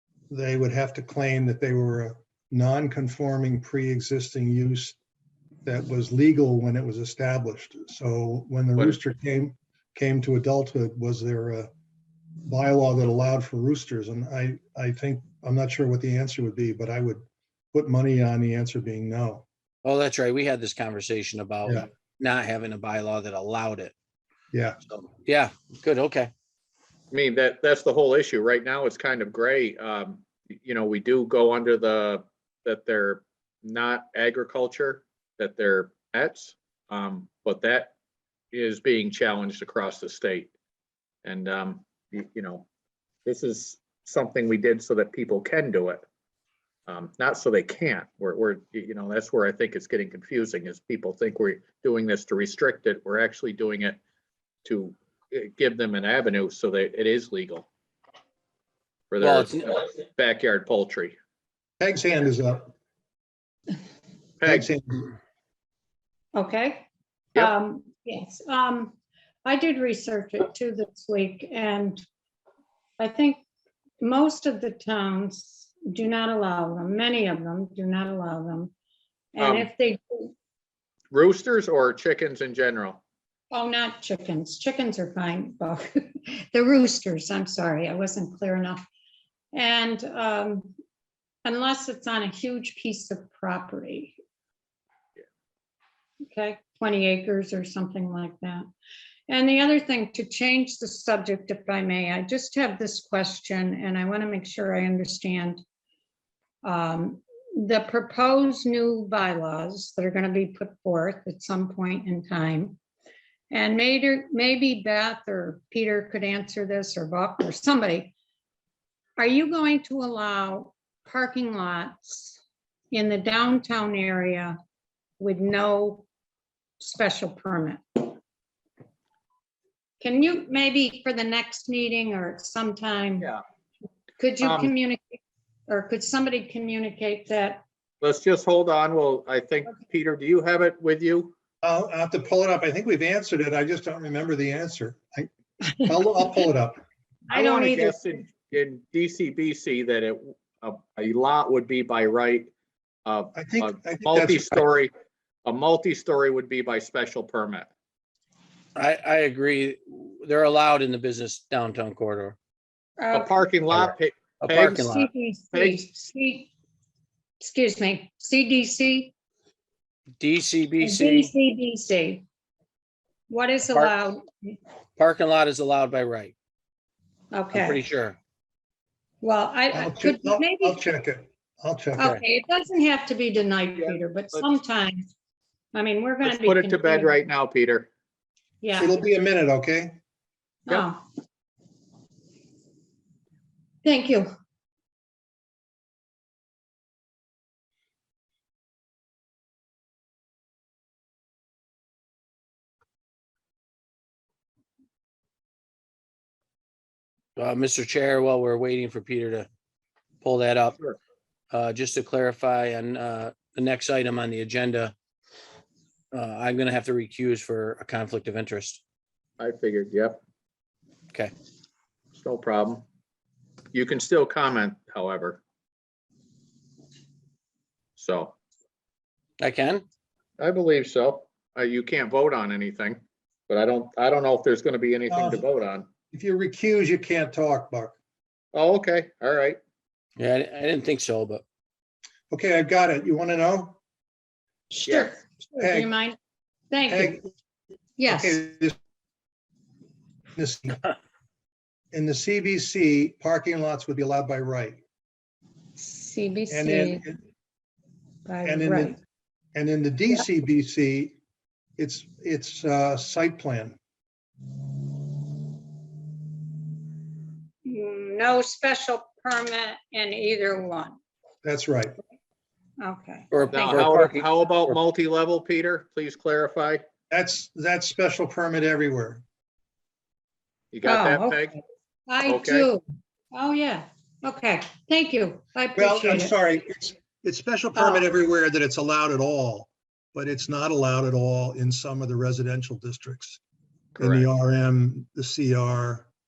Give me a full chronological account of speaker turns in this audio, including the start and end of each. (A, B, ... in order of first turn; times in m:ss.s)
0:00.3-0:05.0 A
0:05.6-0:11.7 A
0:12.4-0:19.4 A
0:19.8-0:23.9 B
0:24.5-0:24.8 A
0:24.9-0:26.3 B
0:27.1-0:37.9 C
0:38.5-0:40.5 C
0:41.2-0:42.7 C
0:43.2-0:46.0 C
0:46.9-0:54.0 C
0:54.6-0:57.7 C
0:59.1-1:01.1 C
0:59.2-0:59.7 B
1:01.8-1:02.7 A
1:04.4-1:04.7 C
1:04.4-1:05.0 A
1:06.3-1:12.0 D
1:13.0-1:13.4 D
1:14.0-1:18.7 D
1:19.3-1:20.3 D
1:19.4-1:19.7 C
1:21.1-1:23.0 C
1:23.5-1:28.9 D
1:29.5-1:30.7 D
1:31.4-1:34.2 D
1:36.2-1:38.6 D
1:39.3-1:45.6 D
1:46.6-1:52.8 D
1:53.5-1:58.1 D
1:59.2-2:02.4 D
2:02.9-2:04.6 D
2:05.2-2:06.1 D
2:06.8-2:08.2 D
2:10.0-2:13.3 D
2:14.2-2:17.6 D
2:14.4-2:14.7 C
2:18.0-2:21.3 C
2:21.6-2:25.3 A
2:25.8-2:26.8 A
2:27.3-2:28.2 D
2:27.3-2:32.5 C
2:33.0-2:34.9 C
2:33.3-2:34.6 A
2:35.4-2:37.7 C
2:38.8-2:42.4 B
2:43.0-2:43.5 D
2:43.1-2:44.8 C
2:43.7-2:45.1 B
2:44.6-2:46.5 D
2:45.5-2:45.8 C
2:47.4-2:49.1 D
2:50.2-2:51.3 B
2:50.8-2:52.2 D
2:53.3-2:54.6 D
2:55.0-2:56.3 B
2:57.3-2:57.8 D
2:57.5-2:58.2 B
2:59.2-3:00.8 D
2:59.7-3:02.2 A
3:02.0-3:05.1 D
3:03.8-3:04.5 C
3:05.7-3:07.2 D
3:06.2-3:07.9 C
3:08.6-3:09.0 D
3:08.8-3:10.0 A
3:10.7-3:11.0 D
3:13.8-3:14.3 D
3:27.4-3:29.5 B
3:30.2-3:30.8 B
3:31.5-3:34.9 B
3:36.1-3:38.8 B
3:39.4-3:40.2 C
3:42.1-3:42.8 C
3:43.7-3:45.4 C
3:48.0-3:48.3 C
3:49.4-3:49.8 B
3:50.4-3:55.9 C
3:55.1-3:55.4 A
3:56.1-3:58.0 A
3:58.5-3:59.6 C
4:00.2-4:01.4 B
4:02.3-4:03.8 A
4:04.7-4:06.2 D
4:04.9-4:05.2 C
4:05.6-4:05.9 A
4:06.7-4:07.2 D
4:06.9-4:07.3 A
4:08.0-4:08.4 D
4:08.1-4:08.8 A
4:10.4-4:10.8 A
4:11.9-4:14.8 A
4:15.8-4:17.0 D
4:16.5-4:17.2 A
4:18.2-4:19.0 D
4:18.4-4:19.0 A
4:19.5-4:21.2 A
4:21.8-4:23.8 A
4:27.6-4:31.0 D
4:31.4-4:32.0 A
4:32.8-4:33.7 D
4:33.3-4:34.8 B
4:33.5-4:36.8 C
4:37.1-4:39.2 A
4:40.7-4:41.6 C
4:40.8-4:41.6 D
4:42.1-4:42.8 D
4:42.2-4:42.7 C
4:43.3-4:46.3 D
4:45.8-4:53.4 A
4:47.7-4:48.1 D
4:54.0-4:54.3 C
4:54.0-4:56.1 A